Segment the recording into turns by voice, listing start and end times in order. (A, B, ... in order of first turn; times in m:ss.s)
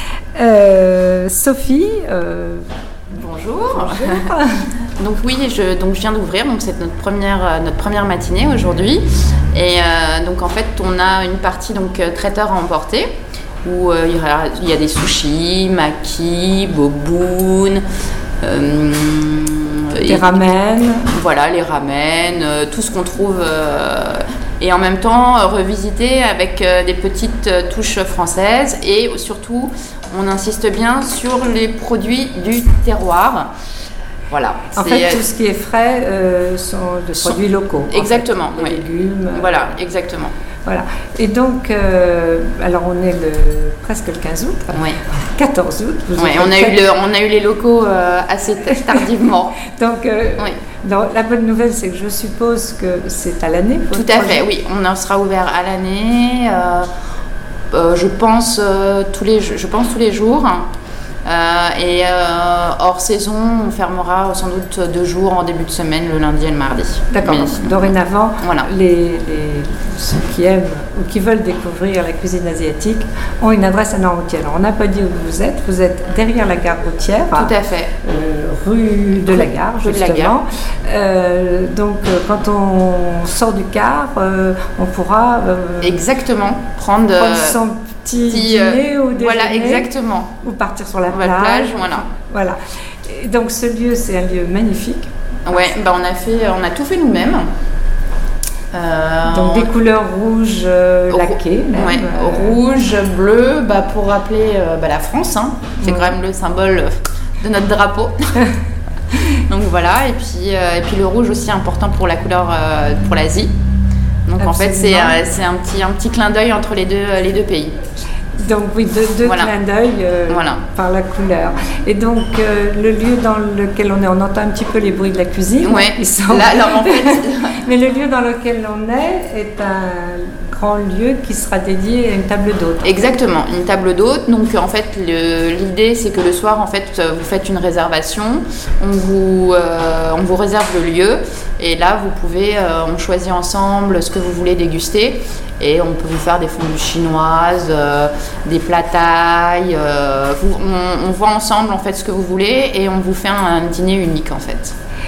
0:00.4-0:02.7 A
0:03.1-0:04.3 B
0:03.7-0:04.6 A
0:05.0-0:13.1 B
0:13.6-0:17.8 B
0:18.4-0:20.5 B
0:20.0-0:21.1 A
0:21.1-0:33.5 B
0:34.3-0:35.2 B
0:34.7-0:39.8 A
0:37.9-0:38.8 B
0:39.3-0:40.3 B
0:40.7-0:46.8 A
0:44.7-0:45.0 B
0:46.2-0:49.6 B
0:49.7-0:54.4 A
0:53.9-0:56.9 B
0:57.7-1:00.6 B
1:01.2-1:08.7 B
1:07.1-1:26.0 A
1:17.3-1:17.9 B
1:19.3-1:20.4 B
1:25.8-1:27.6 B
1:27.2-1:29.9 A
1:28.3-1:30.4 B
1:30.4-1:35.7 A
1:31.1-1:32.1 B
1:35.4-1:37.4 B
1:38.7-1:39.7 B
1:39.2-1:42.6 A
1:41.1-1:48.4 B
1:45.8-1:46.1 A
1:49.3-1:53.5 B
1:54.3-1:57.7 B
1:54.4-1:55.2 A
1:58.4-2:13.0 A
1:59.2-1:59.5 B
2:00.3-2:00.6 B
2:05.6-2:07.6 B
2:12.8-2:34.8 B